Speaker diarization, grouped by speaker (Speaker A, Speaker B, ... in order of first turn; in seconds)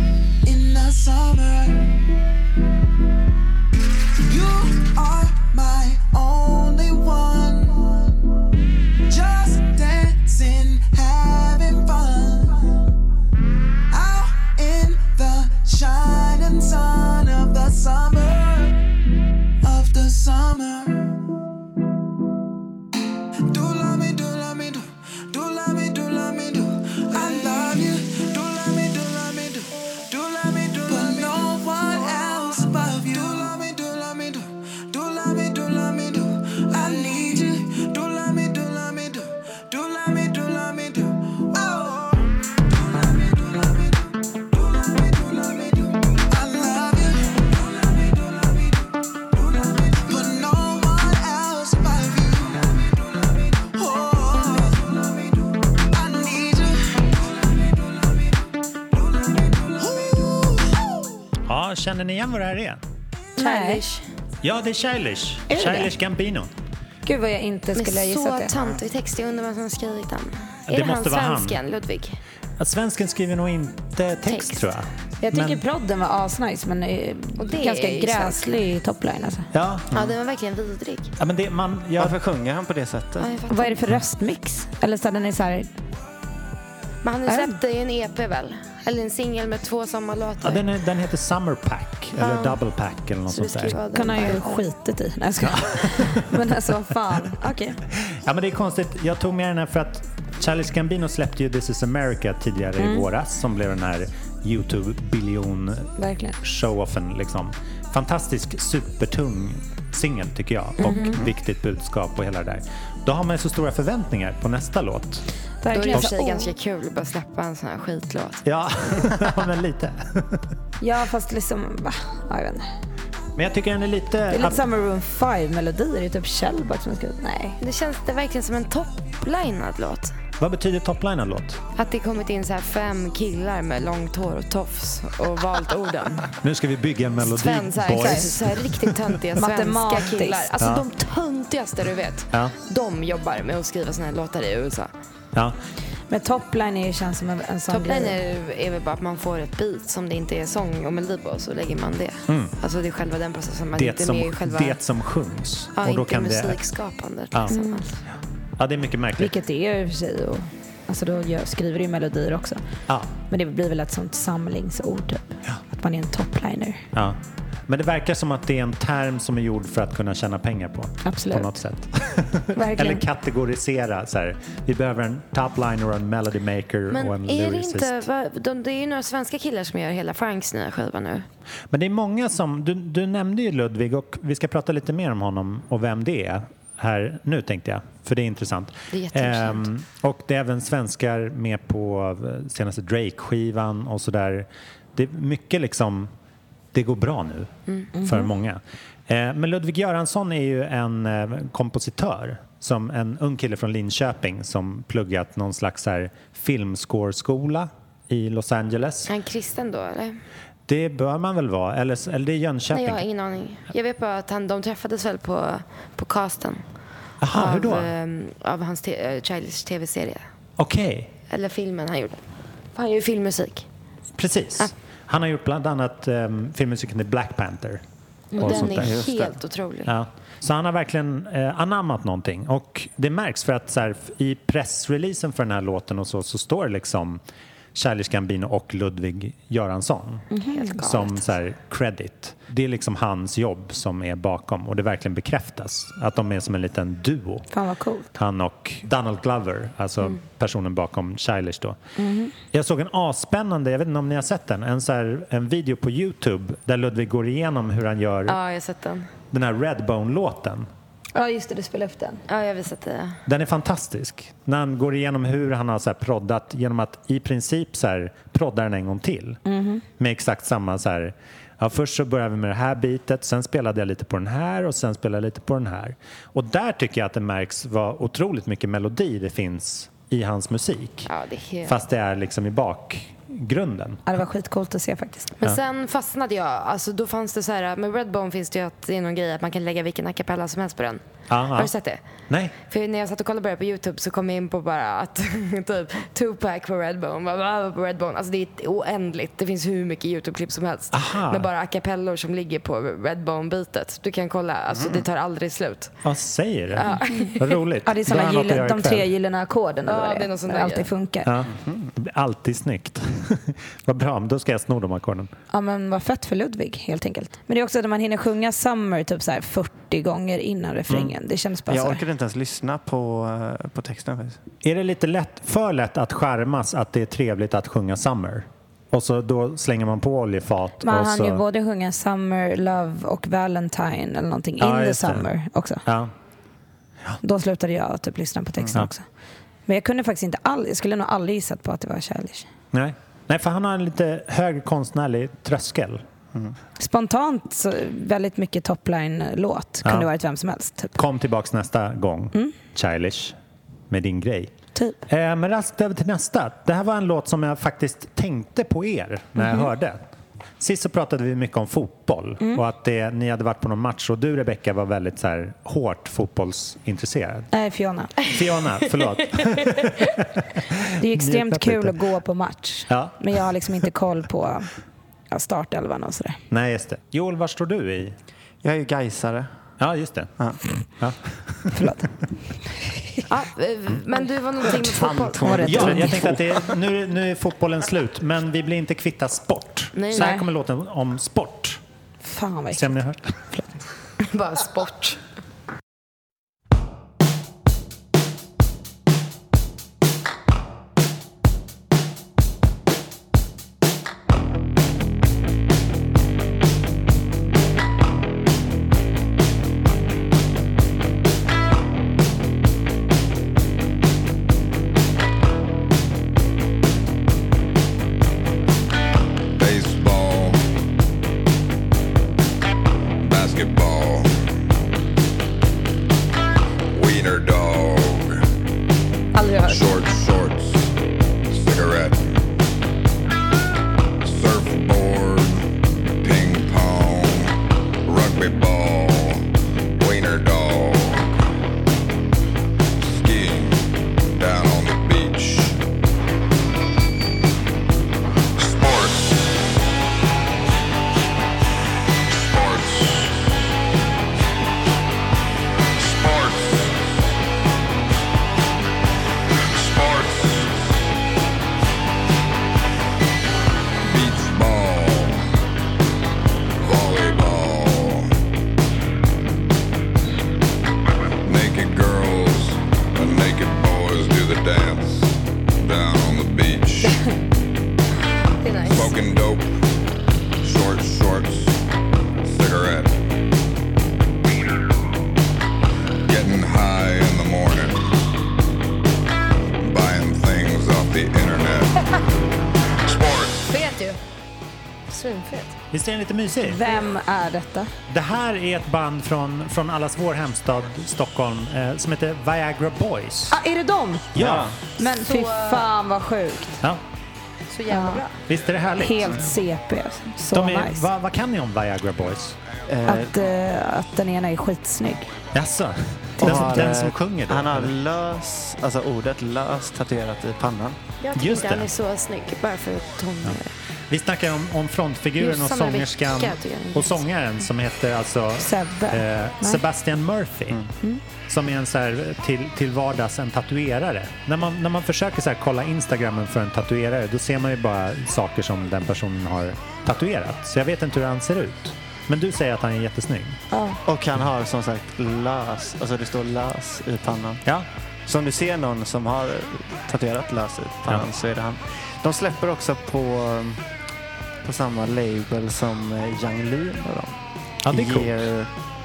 Speaker A: 0.4-1.9, 4.2-8.1, 9.1-12.7, 13.9-18.8, 19.6-21.1, 23.4-60.9
Speaker B: 61.5-62.8, 64.4-66.5, 70.7-71.6, 72.6-75.6, 79.5-79.9, 81.2-82.2, 90.4-93.8, 95.4-96.3, 98.1-115.2, 118.4-120.4, 123.3-124.6, 130.4-131.6, 136.4-138.9, 153.8-156.6, 158.6-159.3, 166.9-178.0, 181.7-196.1, 196.7-197.5, 198.0-209.1, 210.7-213.0, 217.2-217.9, 220.6-221.1, 224.2-227.8, 228.4-229.1, 229.8-237.2, 237.8-247.5, 248.1-251.8, 252.5-258.4, 259.3-260.7, 263.2-269.4, 270.0-281.1, 281.6-284.0, 291.3-291.7, 292.3-292.5, 300.9-301.5, 306.0-309.1, 311.2-315.3, 324.6-331.4, 334.6-335.3, 335.8-336.1, 342.7-346.0, 349.8-350.1, 351.0-353.4, 353.9-354.5, 355.1-360.0, 360.6-367.5, 368.2-372.0, 372.9-373.2, 376.5-378.1, 379.8-380.3, 381.0-381.8, 385.7-391.8, 392.7-393.5, 495.9-496.8, 498.1-503.6, 504.3-504.7, 508.5-509.5, 510.5-512.6, 515.5-517.9, 521.4-521.9, 524.1-530.8, 531.5-543.6, 557.8-558.5
Speaker C: 63.4-63.8, 65.5-65.9, 67.0-68.5, 75.2-79.5, 83.5-85.7, 87.3-87.5, 93.9-97.8, 102.8-103.1, 106.0-106.4, 110.8-111.2, 115.6-116.5, 120.8-122.6, 124.3-127.6, 138.0-138.3, 139.4-140.5, 146.1-148.2, 157.5-157.8, 159.2-162.6, 163.3-166.8, 171.0-171.6, 172.5-173.0, 197.9-198.3, 240.3-240.8, 247.5-248.1, 252.0-252.3, 261.1-262.2, 269.5-269.8, 284.1-285.3, 306.9-311.3, 315.5-322.0, 330.8-335.8, 337.2-339.0, 339.7-342.5, 346.8-351.0, 359.4-359.7, 367.5-368.3, 371.0-374.7, 375.3-376.4, 381.7-382.1, 385.4-386.2, 390.1-390.4, 392.2-392.9, 496.6-497.9, 503.5-504.3, 505.0-506.8, 507.9-508.2, 509.0-511.0, 513.0-515.3, 528.6-529.8, 543.7-544.0
Speaker D: 63.4-64.0, 67.7-72.2, 74.2-74.7, 77.4-78.6, 79.9-81.1, 83.2-83.8, 87.0-90.6, 92.2-92.6, 93.3-94.6, 110.8-111.1, 115.7-118.4, 127.6-130.1, 131.8-136.3, 137.2-144.9, 147.7-154.8, 155.8-158.0, 176.9-181.2, 188.9-189.7, 209.1-210.2, 212.7-216.6, 217.3-220.2, 221.3-222.2, 222.8-223.7, 228.3-229.9, 240.5-241.2, 258.3-259.1, 262.3-263.2, 281.1-281.8, 285.4-291.0, 291.5-292.0, 292.6-305.9, 306.8-307.5, 309.9-310.9, 383.3-385.9, 389.9-390.4, 394.2-395.2, 429.3-429.8, 478.6-479.2, 493.7-494.2, 495.1-495.7, 505.0-505.9, 507.7-508.4, 521.2-523.7, 525.4-527.2
Speaker E: 79.9-80.2, 82.0-83.3, 228.4-229.3, 304.7-305.0, 311.5-311.9, 321.7-324.4, 378.6-379.5, 384.8-386.8, 504.4-504.8, 512.9-513.3, 516.4-521.0, 544.0-547.6, 548.2-553.8, 554.6-558.7
Speaker F: 419.6-420.6, 423.2-424.3, 426.9-428.4, 429.7-430.9, 431.5-432.4, 434.2-439.4, 440.0-441.3, 443.0-443.8, 444.4-445.8, 448.6-449.5, 452.3-453.4, 456.0-457.0, 459.7-460.9, 464.0-465.4, 466.8-468.3, 471.4-477.2, 478.8-479.7, 480.6-481.8, 482.4-483.2, 486.2-488.1, 489.8-491.9, 493.0-493.8